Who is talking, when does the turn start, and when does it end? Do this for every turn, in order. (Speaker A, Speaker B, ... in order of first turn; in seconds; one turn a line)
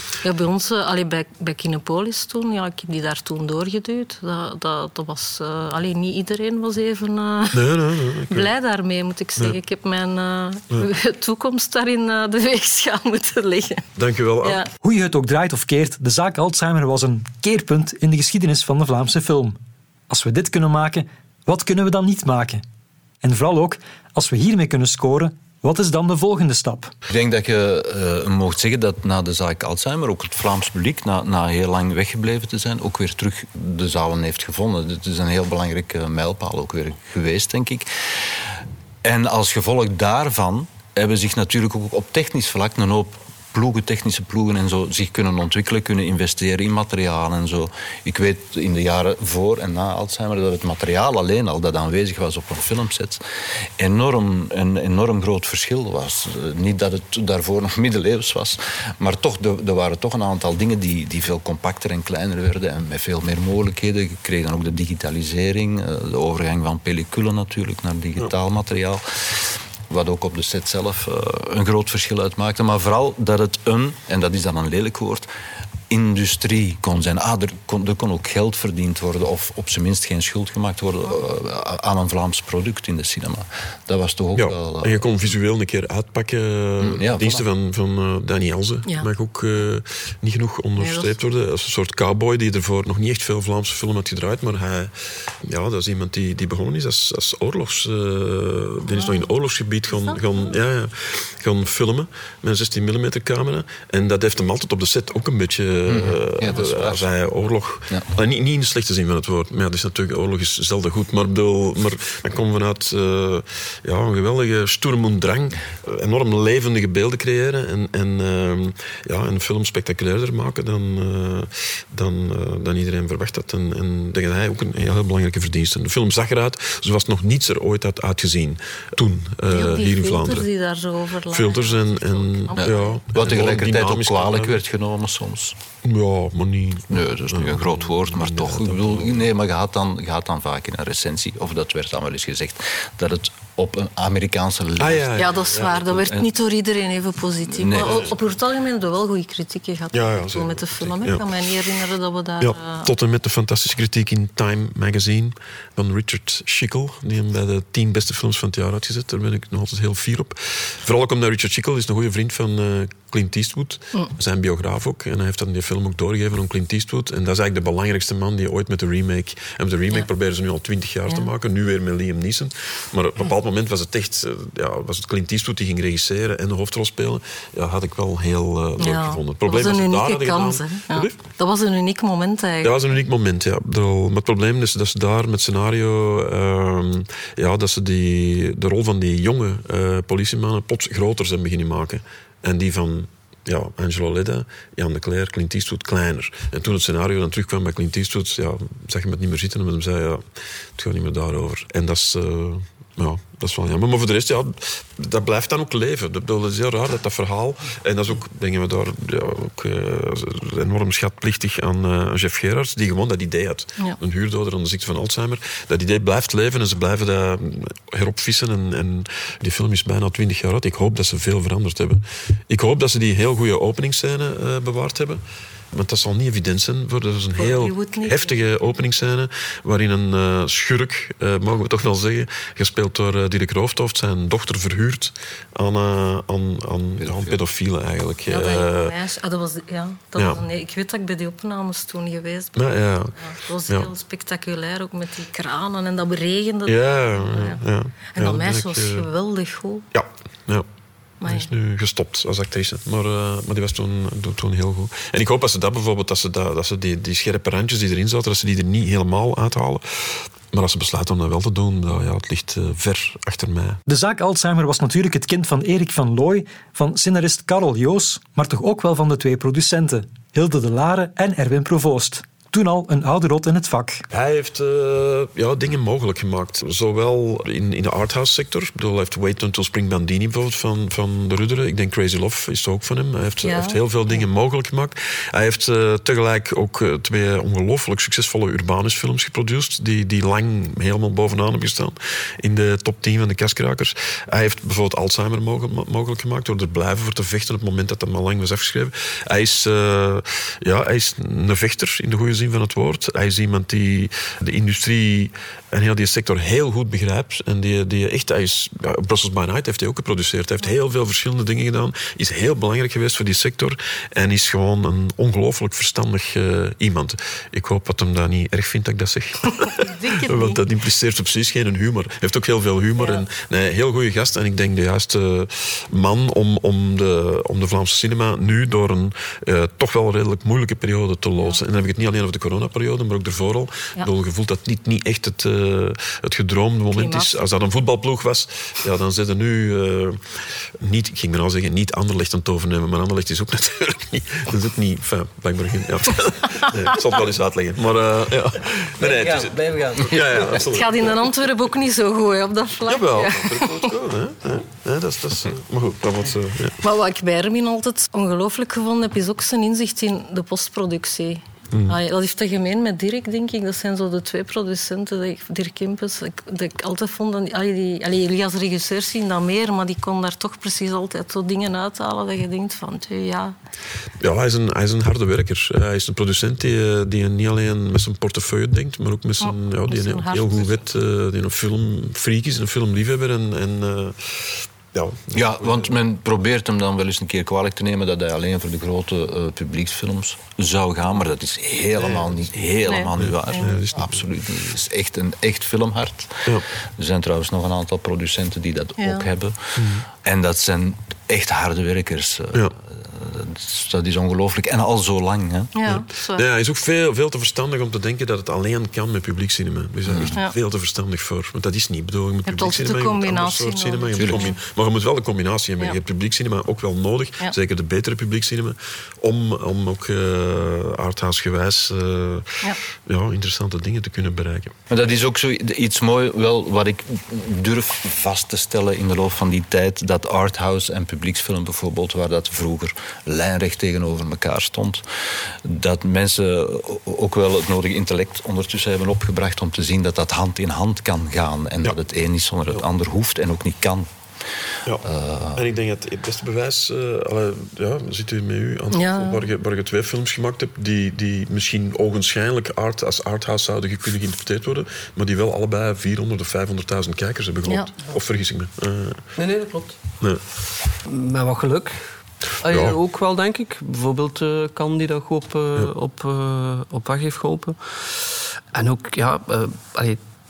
Speaker A: 0.2-13.8
Speaker B: 7.5-8.5
Speaker B: 14.0-14.6
Speaker A: 14.4-14.7
Speaker C: 14.8-19.6
Speaker C: 20.1-22.6
Speaker C: 23.2-26.9
Speaker D: 27.1-37.9
Speaker D: 39.0-53.2
Speaker D: 53.8-75.3
Speaker D: 75.9-85.1
Speaker B: 84.4-130.5
Speaker D: 86.8-87.5
Speaker A: 90.8-91.1
Speaker A: 98.9-99.3
Speaker A: 99.9-100.5
Speaker D: 105.9-107.0
Speaker A: 129.5-133.0
Speaker B: 131.3-134.6
Speaker D: 132.6-135.6
Speaker B: 135.8-139.3
Speaker D: 136.9-145.3
Speaker B: 144.8-146.2
Speaker A: 145.2-152.9
Speaker D: 147.5-148.1
Speaker B: 147.8-148.2
Speaker B: 149.9-151.4
Speaker B: 152.4-181.2
Speaker A: 178.8-182.7
Speaker B: 182.6-200.2
Speaker B: 200.8-225.2
Speaker B: 225.7-238.9
Speaker A: 227.4-228.4
Speaker D: 237.0-237.4
Speaker A: 238.3-247.6
Speaker B: 242.6-243.2
Speaker B: 246.7-249.1
Speaker A: 248.2-249.8
Speaker B: 249.9-250.7
Speaker A: 251.2-251.5
Speaker B: 251.2-263.8
Speaker C: 263.9-274.0
Speaker B: 274.1-340.2
Speaker A: 283.4-284.3
Speaker A: 319.6-320.6
Speaker A: 323.0-323.2
Speaker A: 336.9-337.4
Speaker B: 340.8-351.3
Speaker E: 349.0-350.6
Speaker A: 350.7-353.9
Speaker B: 352.9-356.8
Speaker A: 356.8-373.6
Speaker B: 361.7-362.0
Speaker B: 374.2-386.0
Speaker A: 379.4-380.8
Speaker D: 385.3-405.7
Speaker B: 392.0-392.4
Speaker A: 392.9-393.8
Speaker B: 393.2-394.2
Speaker A: 399.0-399.3
Speaker B: 399.8-400.1
Speaker A: 405.7-406.4
Speaker B: 405.9-424.8
Speaker D: 410.1-410.4
Speaker A: 412.5-414.6
Speaker D: 414.2-414.5
Speaker D: 424.9-444.1
Speaker D: 445.0-445.6
Speaker B: 445.6-459.3
Speaker A: 448.9-449.5
Speaker E: 459.4-460.0
Speaker E: 461.1-470.2
Speaker B: 462.7-463.0